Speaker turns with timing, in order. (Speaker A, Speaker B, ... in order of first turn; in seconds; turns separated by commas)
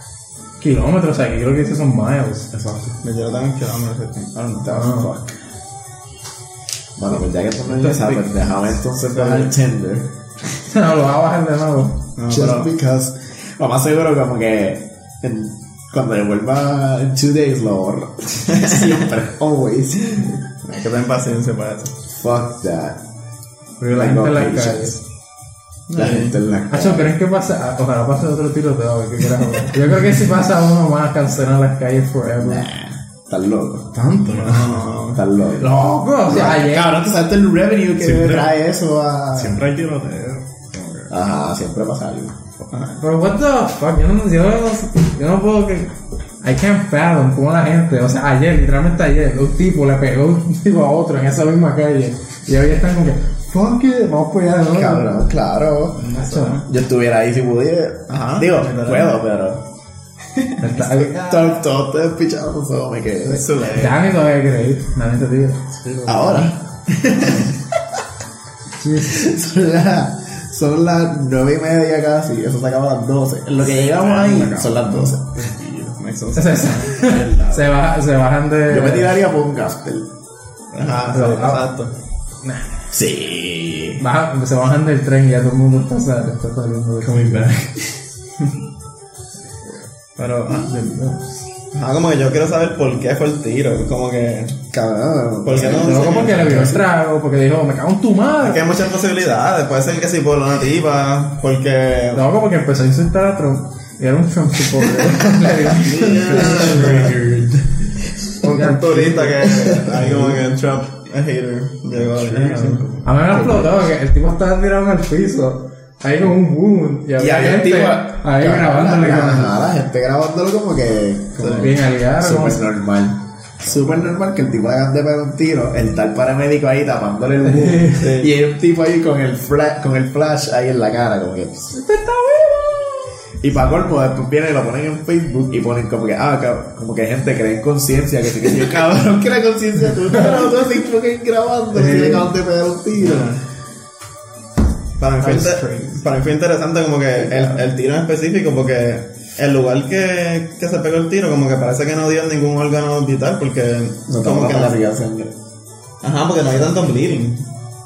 Speaker A: 0.6-2.5, Speaker B: 2.5-3.0, Speaker C: 3.0-4.7, Speaker D: 4.6-5.4, Speaker A: 4.7-5.1, Speaker D: 7.0-10.1, Speaker A: 7.7-8.2, Speaker A: 10.7-12.0, Speaker C: 12.2-12.7, Speaker D: 12.3-20.4, Speaker C: 20.6-21.9, Speaker D: 22.1-23.0, Speaker A: 23.8-25.0, Speaker D: 23.9-24.9, Speaker C: 25.9-26.4, Speaker D: 25.9-27.1, Speaker A: 26.7-32.7, Speaker D: 32.4-33.9, Speaker B: 33.9-34.8, Speaker C: 34.3-35.2, Speaker D: 35.1-39.6, Speaker A: 35.5-37.0, Speaker B: 38.0-38.5, Speaker B: 39.3-41.1, Speaker D: 41.1-42.4, Speaker C: 42.7-43.0, Speaker A: 43.0-55.1, Speaker D: 54.7-56.0, Speaker C: 56.0-56.6, Speaker A: 56.1-56.6, Speaker D: 56.6-59.6, Speaker C: 58.1-59.1, Speaker A: 60.6-61.6, Speaker D: 60.7-63.6, Speaker A: 63.3-65.6, Speaker C: 63.3-64.0, Speaker B: 65.7-66.5, Speaker D: 66.0-67.4, Speaker C: 67.1-67.4, Speaker A: 68.8-69.2, Speaker D: 69.0-75.3, Speaker B: 73.7-76.0, Speaker C: 76.0-77.0, Speaker A: 76.3-79.2, Speaker B: 77.0-77.7, Speaker D: 78.7-80.1, Speaker C: 80.7-81.9, Speaker A: 81.1-81.7, Speaker A: 82.4-82.8, Speaker D: 82.9-84.0, Speaker A: 84.0-87.5, Speaker B: 87.0-88.0, Speaker C: 90.2-91.0, Speaker C: 91.7-94.6, Speaker D: 94.7-96.8, Speaker C: 95.4-96.8, Speaker A: 95.6-98.7, Speaker B: 96.4-96.8, Speaker C: 98.4-102.3, Speaker A: 102.1-107.1, Speaker C: 105.0-107.2, Speaker B: 106.0-108.0, Speaker C: 108.4-112.9, Speaker A: 108.4-109.5, Speaker D: 109.5-110.0, Speaker B: 111.9-113.3, Speaker A: 113.0-119.6, Speaker D: 113.3-113.7, Speaker D: 117.2-131.8, Speaker A: 121.4-122.6, Speaker C: 121.4-121.7, Speaker A: 127.4-128.1, Speaker C: 127.9-128.3, Speaker A: 131.7-133.1, Speaker D: 133.4-143.4, Speaker A: 140.1-140.5, Speaker A: 141.7-142.3, Speaker C: 142.9-143.4, Speaker C: 145.0-154.7, Speaker A: 145.2-146.0, Speaker D: 147.2-147.6, Speaker D: 154.1-155.3, Speaker C: 156.0-157.4